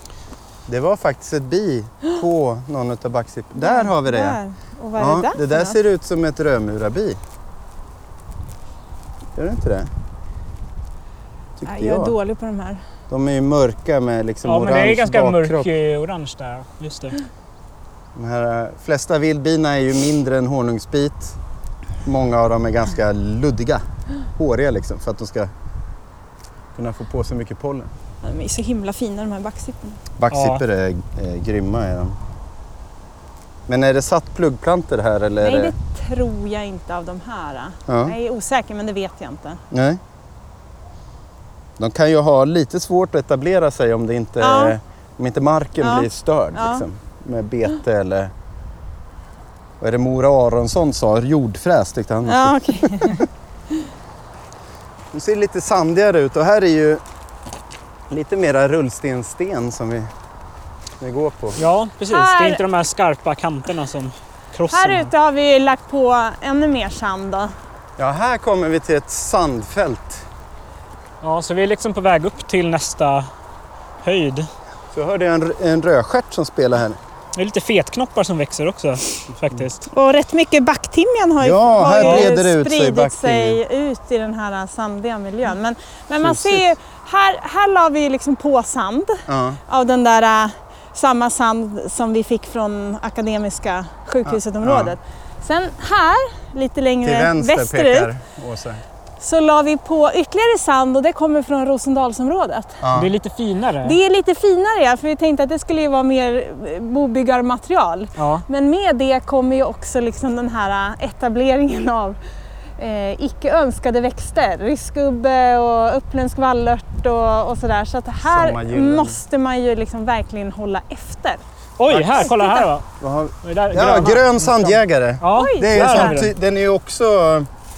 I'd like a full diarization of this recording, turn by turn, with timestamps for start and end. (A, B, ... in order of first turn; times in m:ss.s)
0:00.7-0:04.4 A
0:03.6-0:05.8 B
0:05.0-0:07.2 A
0:09.4-0:09.9 A
0:11.6-0:12.2 A
0:11.7-0:12.8 B
0:13.1-0:15.7 A
0:14.4-0:17.2 C
0:18.2-0:21.4 A
0:22.0-0:23.8 A
0:24.4-0:25.5 A
0:26.8-0:27.9 A
0:28.2-0:30.0 B
0:30.2-0:32.2 A
0:30.3-0:30.6 C
0:33.7-0:35.7 A
0:35.4-0:39.6 B
0:37.9-0:38.2 A
0:39.7-0:40.0 A
0:41.8-0:48.3 A
0:44.4-0:44.8 B
0:45.8-0:46.8 B
0:49.8-0:53.2 A
0:52.2-0:53.2 B
0:55.1-0:57.0 A
0:58.1-1:00.1 A
1:01.0-1:01.6 A
1:01.6-1:05.1 C
1:02.1-1:02.6 B
1:04.7-1:07.5 B
1:08.0-1:10.2 A
1:11.2-1:13.3 C
1:14.0-1:14.5 C
1:14.9-1:17.0 A
1:17.4-1:19.9 C
1:19.9-1:38.1 B
1:21.4-1:23.6 A
1:22.0-1:22.3 C
1:26.2-1:26.7 A
1:29.3-1:29.6 A
1:34.2-1:35.0 A
1:37.0-1:38.8 A
1:39.2-1:42.9 B
1:42.8-1:43.1 A
1:42.9-1:44.0 C
1:43.8-1:52.2 B
1:48.2-1:48.4 C
1:52.8-2:01.4 B
1:58.2-1:59.2 A
2:01.8-2:02.9 C
2:01.9-2:02.3 A
2:02.2-2:02.7 B
2:03.0-2:07.5 A
2:03.4-2:06.3 C
2:05.3-2:06.2 B